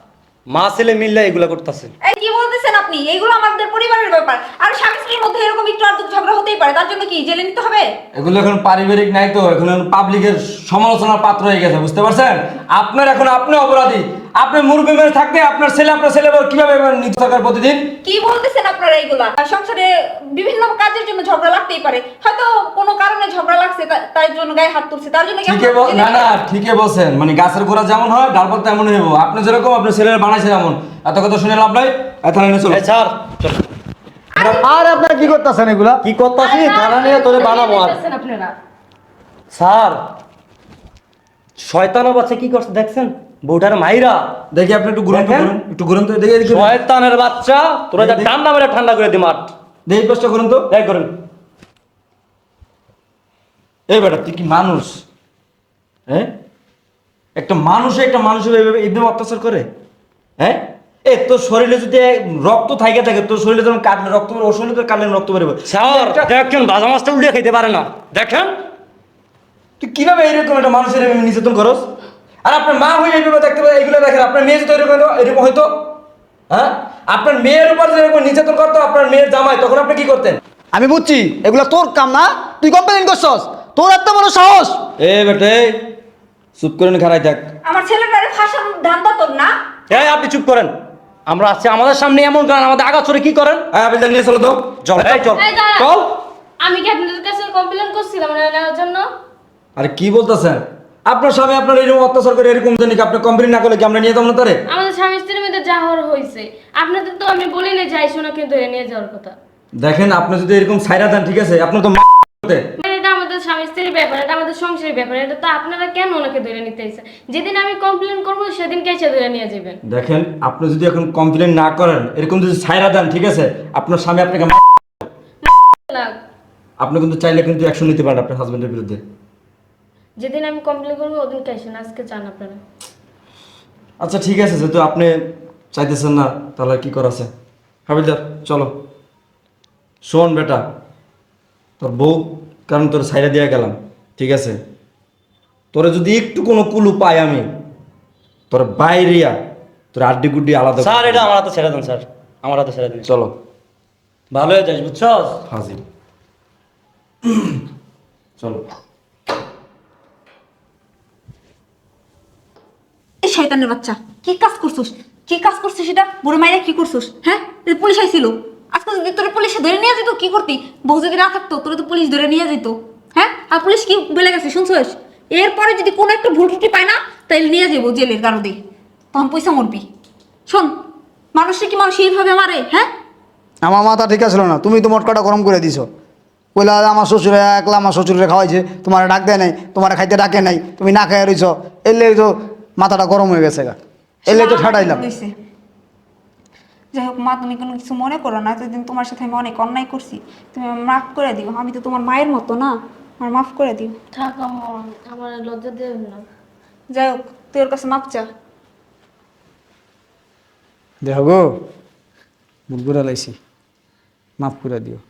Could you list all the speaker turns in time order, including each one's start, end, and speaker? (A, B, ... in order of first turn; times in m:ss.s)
0:00.5-0:01.9 A
0:02.0-0:07.9 B
0:08.1-0:17.9 C
0:18.0-0:26.3 B
0:25.5-0:32.8 C
0:32.7-0:33.6 A
0:34.4-0:35.2 B
0:34.6-0:36.0 D
0:36.0-0:38.5 A
0:36.4-0:38.5 E
0:39.5-0:40.0 A
0:41.6-0:44.2 A
0:44.5-0:46.8 C
0:45.1-0:45.5 A
0:46.4-0:49.5 A
0:48.0-0:48.3 C
0:49.9-0:50.7 C
0:50.7-0:51.1 A
0:53.9-0:55.0 C
0:57.4-0:59.6 C
1:00.4-1:06.4 C
1:05.7-1:08.6 A
1:09.8-1:11.8 C
1:12.4-1:15.7 C
1:16.5-1:20.4 C
1:20.7-1:24.8 D
1:25.0-1:25.8 C
1:26.6-1:27.5 C
1:27.6-1:29.5 B
1:29.9-1:30.8 A
1:31.3-1:33.6 A
1:33.7-1:35.3 C
1:34.8-1:36.1 A
1:36.6-1:39.1 E
1:39.8-1:44.6 C
1:44.7-1:49.4 E
1:49.8-1:52.6 C
1:52.8-1:59.8 E
1:59.9-2:05.1 C
2:05.4-2:06.2 E
2:06.8-2:09.0 C
2:10.2-2:12.6 E
2:14.0-2:15.1 C
2:15.7-2:17.3 C
2:17.9-2:18.7 C
2:20.0-2:20.6 C
2:21.8-2:24.6 C
2:25.7-2:27.5 C
2:28.5-2:29.3 C
2:29.9-2:31.3 C
2:30.8-2:33.1 A
2:33.0-2:33.4 C
2:34.3-2:35.4 A
2:35.5-2:35.8 C
2:37.2-2:37.6 C
2:38.4-2:38.6 C
2:43.2-2:58.6 B
2:59.1-2:59.8 B
3:01.3-3:02.9 B
3:03.6-3:05.9 D
3:06.5-3:13.8 D
3:14.3-3:15.0 D
3:14.3-3:15.3 B
3:16.9-3:24.0 B
3:24.1-3:26.2 E
3:26.9-3:28.2 B
3:31.0-3:31.4 D
3:32.7-3:33.3 D
3:34.4-3:35.0 D